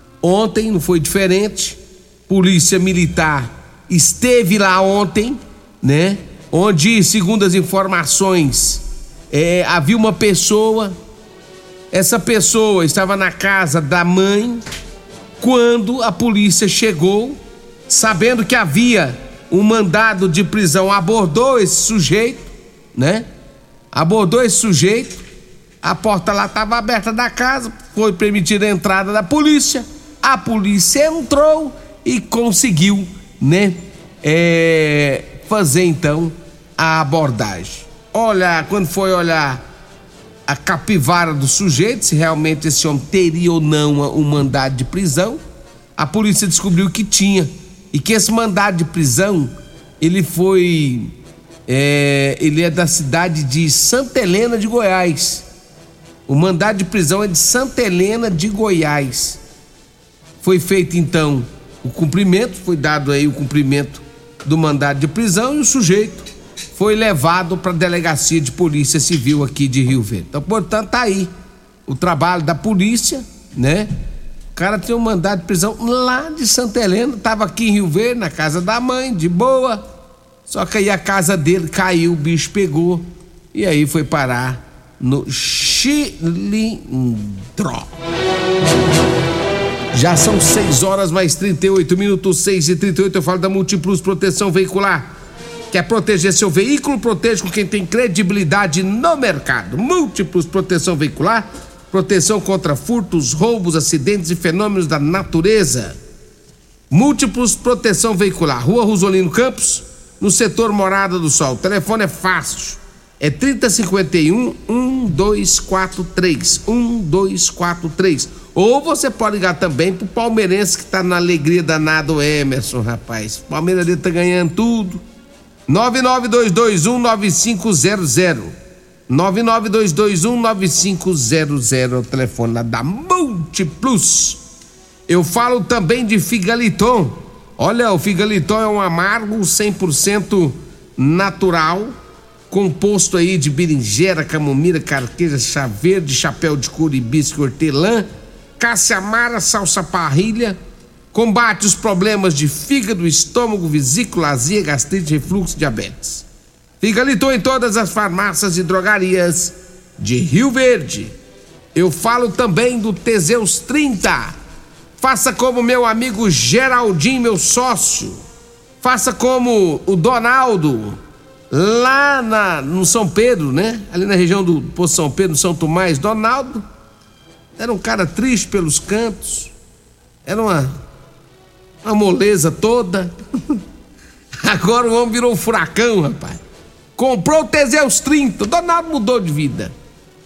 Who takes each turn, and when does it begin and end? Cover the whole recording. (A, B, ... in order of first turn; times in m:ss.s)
0:00.2-0:11.0 A
0:11.9-0:14.6 A
0:15.4-0:17.4 A
0:17.9-0:23.2 A
0:23.9-0:25.2 A
0:25.8-0:39.6 A
0:40.5-0:45.4 A
0:46.0-0:51.1 A
0:51.7-0:55.4 A
0:56.3-0:59.4 A
1:00.4-1:11.3 A
1:11.9-1:13.9 A
1:14.6-1:19.8 A
1:20.5-1:27.9 A
1:29.9-1:35.1 A
1:35.7-1:46.0 A
1:46.9-2:05.0 A
2:05.7-2:08.5 A
2:09.1-2:14.4 A
2:15.1-2:21.9 A
2:22.5-2:28.1 A
2:28.6-2:30.6 A
2:31.1-2:36.2 A
2:36.8-2:41.1 A
2:41.7-2:44.3 A
2:45.0-2:48.2 A
2:48.8-2:51.0 A
2:51.5-2:56.6 A
2:57.6-2:59.5 A
3:00.2-3:00.7 A
3:01.8-3:03.6 A
3:04.4-3:06.4 A
3:07.0-3:09.7 A